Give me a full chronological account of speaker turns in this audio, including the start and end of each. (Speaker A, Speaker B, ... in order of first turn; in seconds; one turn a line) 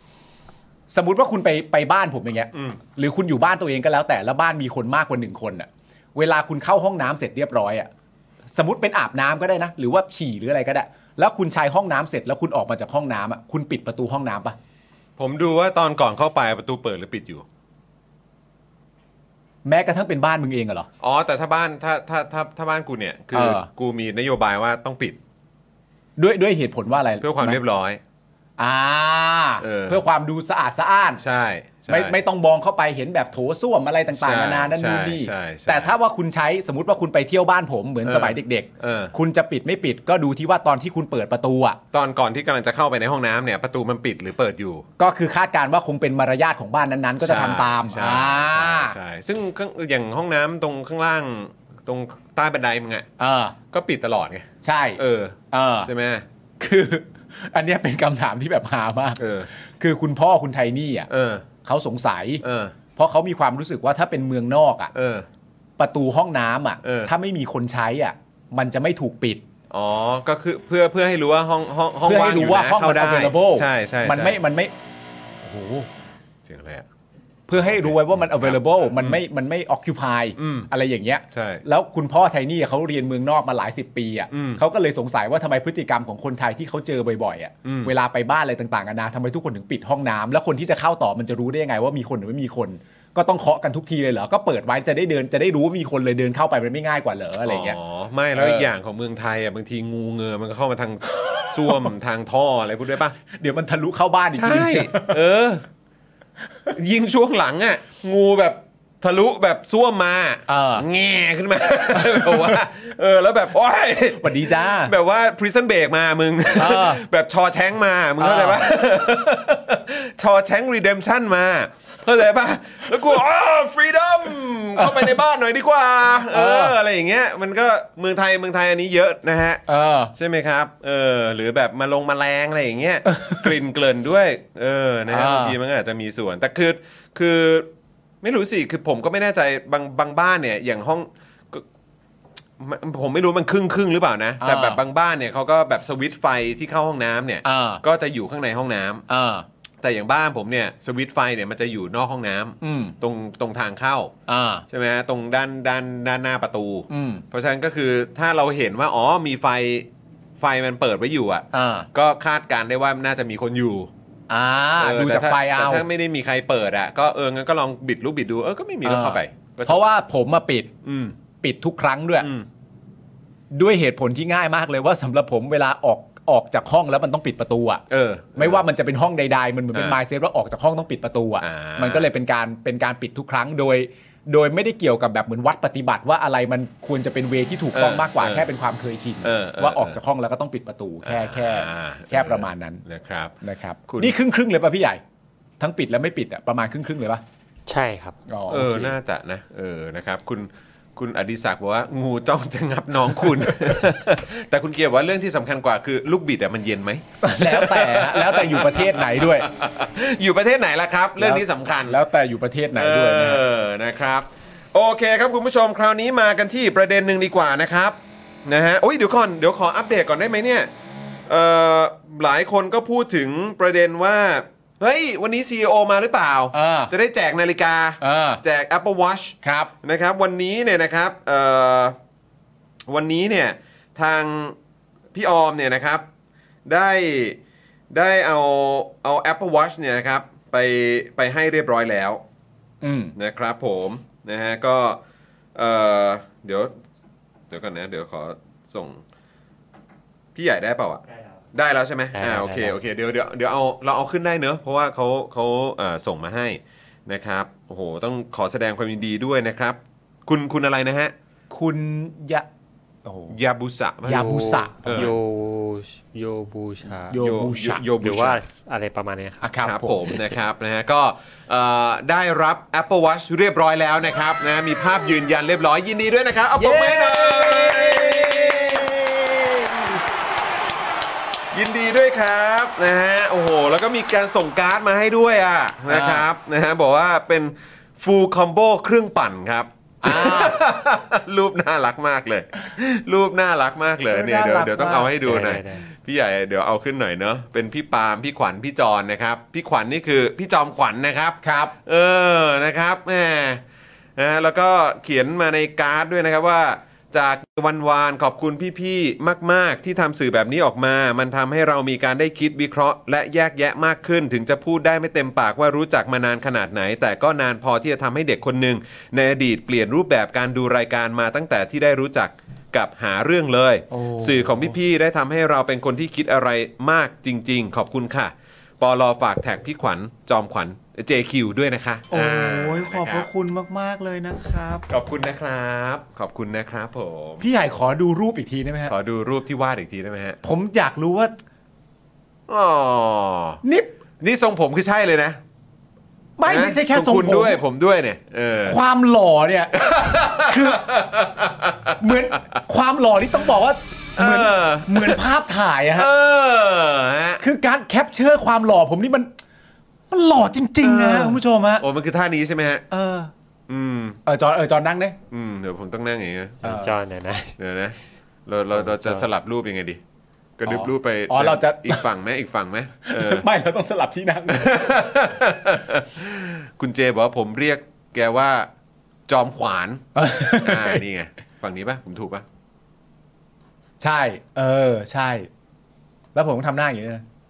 Speaker A: 0.9-7.9
Speaker B: 2.5-2.8
Speaker A: 8.5-14.6
Speaker B: 15.2-17.5
Speaker A: 19.6-20.9
Speaker B: 21.0-25.2
Speaker A: 23.3-23.7
Speaker A: 26.2-27.6
Speaker B: 27.2-28.0
Speaker A: 28.6-31.2
Speaker B: 29.6-30.0
Speaker B: 31.2-32.2
Speaker A: 31.9-41.8
Speaker B: 34.1-36.0
Speaker B: 38.0-39.1
Speaker B: 41.9-44.9
Speaker A: 45.0-49.0
Speaker B: 47.2-53.1
Speaker A: 53.2-53.5
Speaker B: 53.7-56.2
Speaker A: 54.6-55.0
Speaker A: 55.5-55.9
Speaker A: 56.6-61.1
Speaker B: 59.2-59.5
Speaker B: 61.1-61.5
Speaker A: 61.6-62.4
Speaker B: 62.4-62.8
Speaker A: 63.0-64.9
Speaker B: 64.9-65.3
Speaker A: 65.8-69.4
Speaker B: 66.8-67.1
Speaker B: 69.7-74.4
Speaker A: 72.0-74.7
Speaker A: 75.4-75.9
Speaker B: 76.4-76.9
Speaker A: 77.5-97.8
Speaker B: 77.5-79.2
Speaker B: 80.4-80.7
Speaker B: 81.3-81.6
Speaker B: 84.3-84.6
Speaker B: 87.6-87.9
Speaker B: 97.5-103.2
Speaker A: 98.4-98.7
Speaker A: 101.1-101.8
Speaker A: 103.3-105.2
Speaker B: 104.3-105.7
Speaker B: 106.7-129.6
Speaker A: 110.5-110.8
Speaker A: 111.9-112.6
Speaker A: 114.2-114.9
Speaker A: 116.5-117.0
Speaker A: 118.2-118.6
Speaker A: 124.8-125.2
Speaker A: 126.3-126.7
Speaker A: 129.7-130.1
Speaker B: 130.1-137.7
Speaker A: 133.1-133.5
Speaker A: 135.1-135.6
Speaker B: 138.2-141.7
Speaker B: 142.6-149.1
Speaker A: 144.4-144.8
Speaker A: 147.4-147.8
Speaker A: 149.1-149.4
Speaker B: 149.8-154.1
Speaker A: 152.6-152.9
Speaker A: 154.3-154.7
Speaker B: 154.7-159.9
Speaker A: 156.9-157.2
Speaker B: 160.4-163.9
Speaker A: 161.5-161.9
Speaker A: 164.3-165.8
Speaker B: 164.8-169.8
Speaker A: 168.8-170.7
Speaker B: 170.8-171.2
Speaker A: 171.4-172.3
Speaker B: 172.2-172.5
Speaker A: 173.5-177.8
Speaker B: 177.9-178.7
Speaker A: 178.4-192.8
Speaker B: 179.7-180.0
Speaker B: 181.4-182.1
Speaker B: 187.7-188.5
Speaker B: 189.2-190.0
Speaker B: 191.0-193.4
Speaker A: 193.4-195.0
Speaker B: 193.9-194.2
Speaker A: 195.6-197.2
Speaker C: 197.7-198.2
Speaker A: 198.3-198.9
Speaker B: 198.5-212.0
Speaker A: 207.2-209.5
Speaker A: 211.2-213.4
Speaker B: 212.8-220.7
Speaker B: 221.3-231.9
Speaker A: 226.5-226.9
Speaker A: 228.0-228.4
Speaker A: 229.4-229.7
Speaker B: 232.9-234.6
Speaker B: 235.1-236.1
Speaker B: 236.7-237.4
Speaker B: 237.9-242.2
Speaker A: 242.8-243.1
Speaker B: 243.2-245.0
Speaker B: 245.6-246.7
Speaker B: 247.5-249.0
Speaker B: 250.3-261.1
Speaker C: 252.2-252.8
Speaker A: 261.5-262.5
Speaker A: 263.1-263.4
Speaker B: 263.3-265.1
Speaker A: 264.1-265.1
Speaker C: 264.1-267.2
Speaker A: 267.1-267.9
Speaker B: 267.2-268.4
Speaker C: 268.0-269.4
Speaker A: 269.4-270.1
Speaker B: 269.6-280.0
Speaker A: 276.6-278.9
Speaker B: 281.5-303.6
Speaker A: 285.9-286.3
Speaker A: 290.0-290.6
Speaker A: 294.1-295.1
Speaker C: 295.2-295.8
Speaker A: 301.4-301.7
Speaker B: 304.2-333.3
Speaker A: 323.9-324.8
Speaker A: 332.1-334.9
Speaker B: 334.9-337.5
Speaker A: 337.4-338.9
Speaker B: 338.9-340.4
Speaker A: 340.4-341.3
Speaker B: 342.5-343.6
Speaker A: 343.6-343.9
Speaker B: 344.2-345.4
Speaker A: 346.4-347.6
Speaker B: 346.5-348.8
Speaker A: 348.6-350.9
Speaker B: 349.7-352.1
Speaker A: 352.0-356.1
Speaker B: 354.2-355.2
Speaker B: 355.9-357.4
Speaker A: 357.4-359.3
Speaker A: 360.1-361.9
Speaker B: 360.8-362.8
Speaker A: 362.9-363.3
Speaker B: 363.7-364.2
Speaker A: 364.3-365.2
Speaker B: 365.3-366.6
Speaker A: 366.6-366.9
Speaker C: 366.6-367.6
Speaker B: 367.6-370.0
Speaker B: 370.6-373.5
Speaker A: 370.7-372.0
Speaker A: 373.0-374.9
Speaker B: 374.5-378.7
Speaker B: 379.3-382.4
Speaker A: 380.1-381.0
Speaker A: 384.0-385.5
Speaker A: 386.4-387.2